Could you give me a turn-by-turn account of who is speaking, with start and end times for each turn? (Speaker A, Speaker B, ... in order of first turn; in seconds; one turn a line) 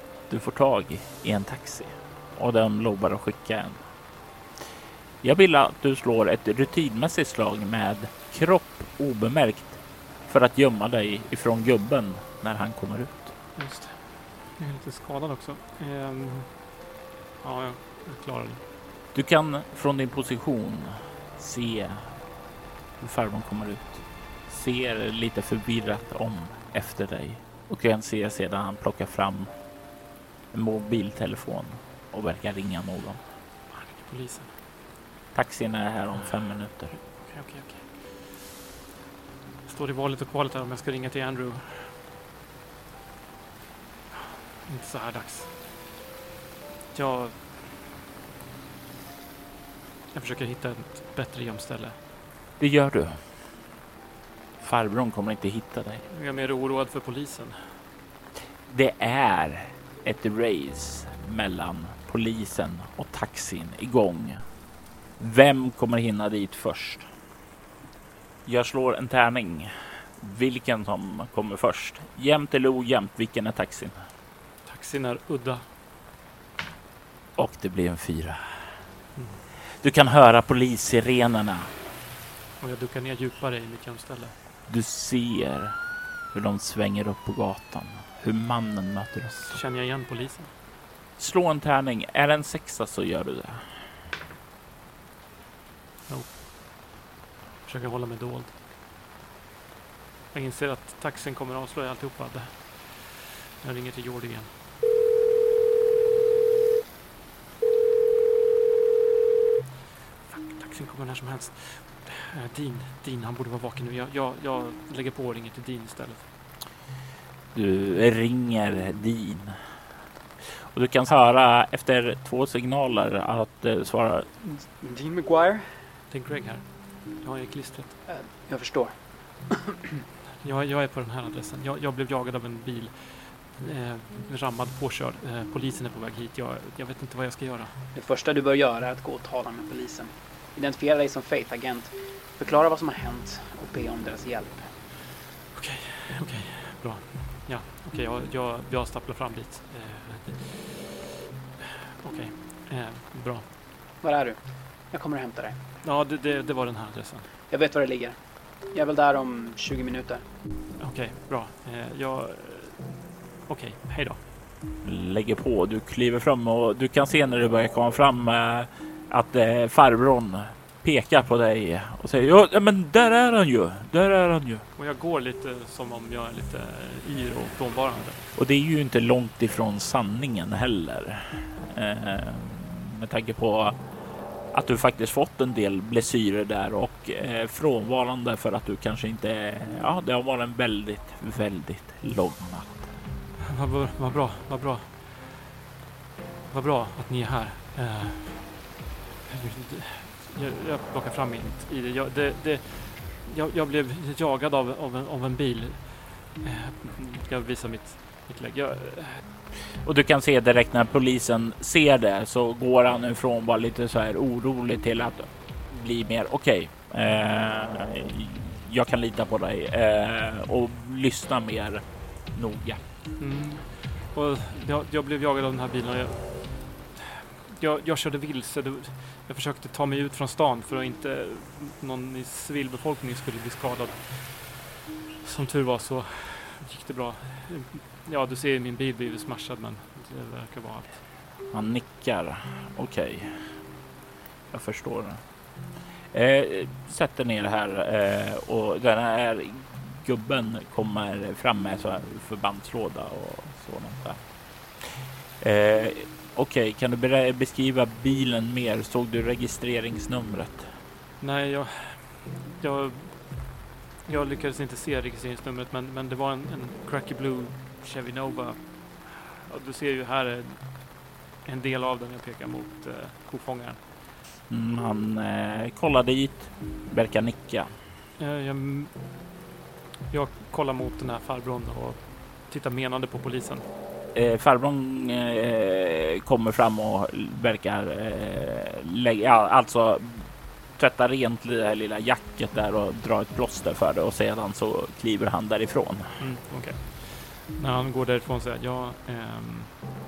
Speaker A: 0.3-3.8
Speaker A: 5.2-13.3
Speaker B: 13.6-16.6
Speaker B: 17.4-18.6
Speaker A: 19.1-22.2
Speaker A: 23.0-29.5
Speaker A: 30.5-33.2
Speaker B: 33.7-34.5
Speaker A: 35.3-37.0
Speaker B: 37.0-38.4
Speaker B: 39.6-42.0
Speaker B: 44.1-45.5
Speaker B: 46.9-47.6
Speaker B: 50.1-52.0
Speaker A: 52.6-53.2
Speaker A: 54.6-56.0
Speaker B: 56.1-57.8
Speaker A: 58.7-64.4
Speaker A: 65.2-67.1
Speaker A: 68.4-74.0
Speaker B: 74.6-75.7
Speaker A: 77.3-78.5
Speaker B: 79.1-79.4
Speaker A: 79.8-81.7
Speaker B: 82.6-84.3
Speaker A: 84.7-85.8
Speaker A: 86.3-89.6
Speaker B: 89.4-90.5
Speaker A: 91.2-93.9
Speaker B: 96.1-96.3
Speaker B: 97.6-98.5
Speaker B: 100.3-104.5
Speaker B: 110.3-116.3
Speaker A: 117.5-119.6
Speaker A: 120.4-124.3
Speaker C: 124.4-125.8
Speaker B: 126.1-128.0
Speaker C: 128.1-129.9
Speaker B: 130.4-137.8
Speaker C: 137.9-144.7
Speaker B: 145.5-151.0
Speaker B: 151.6-153.4
Speaker C: 154.0-155.6
Speaker B: 155.8-157.3
Speaker C: 157.5-158.2
Speaker C: 158.7-160.2
Speaker B: 160.8-164.2
Speaker A: 164.8-174.7
Speaker B: 174.8-178.2
Speaker A: 178.3-183.8
Speaker A: 184.5-192.9
Speaker B: 193.4-195.5
Speaker B: 196.5-198.7
Speaker B: 199.3-209.2
Speaker A: 209.8-222.8
Speaker B: 223.2-234.6
Speaker B: 235.2-241.0
Speaker A: 241.5-243.4
Speaker A: 244.5-245.2
Speaker A: 246.1-254.2
Speaker A: 255.4-260.7
Speaker B: 261.2-263.5
Speaker B: 264.0-270.9
Speaker B: 271.4-273.8
Speaker A: 274.5-277.7
Speaker B: 278.2-279.0
Speaker B: 280.1-283.6
Speaker A: 284.1-296.2
Speaker B: 296.2-299.9